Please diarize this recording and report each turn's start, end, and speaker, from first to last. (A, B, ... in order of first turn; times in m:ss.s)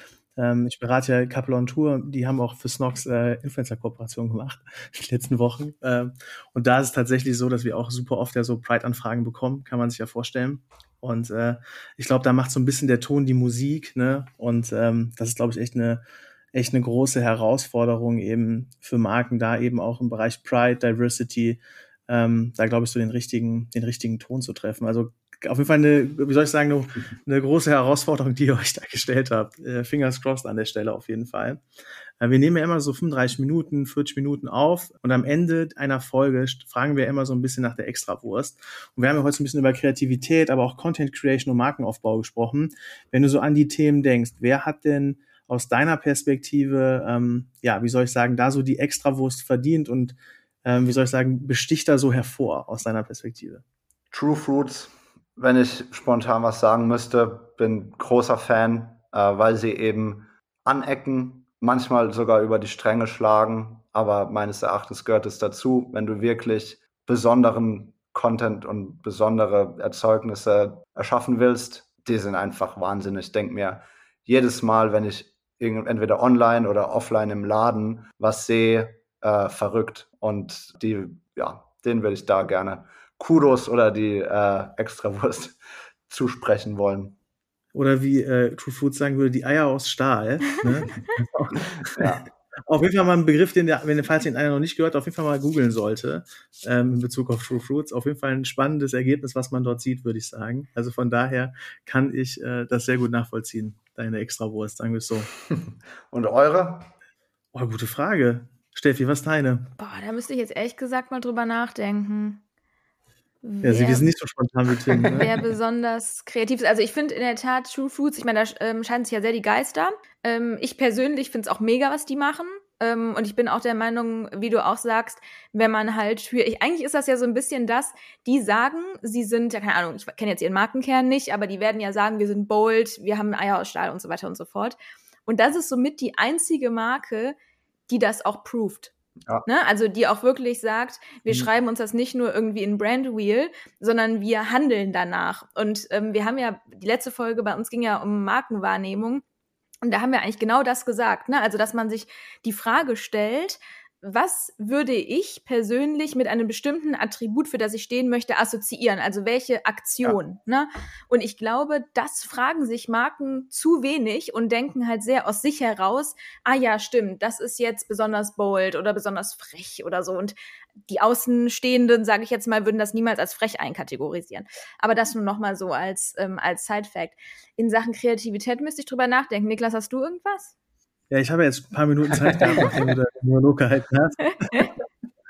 0:00.4-0:16.0 A
0:16.5-0:31.6 A
0:32.2-0:53.6 A
0:54.1-1:25.6 B
1:26.1-1:27.2 B
1:27.7-1:45.3 A
1:31.9-1:32.2 B
1:45.5-1:46.9 B
1:47.5-1:49.7 A
1:49.8-1:52.4 C
1:53.4-1:54.1 C
1:53.6-1:55.3 A
1:55.0-2:17.4 C
2:17.9-2:18.9 C
2:19.4-2:29.2 C
2:29.8-2:50.3 C
2:50.9-3:00.5 C
3:01.1-3:04.7 A
3:04.4-3:04.7 C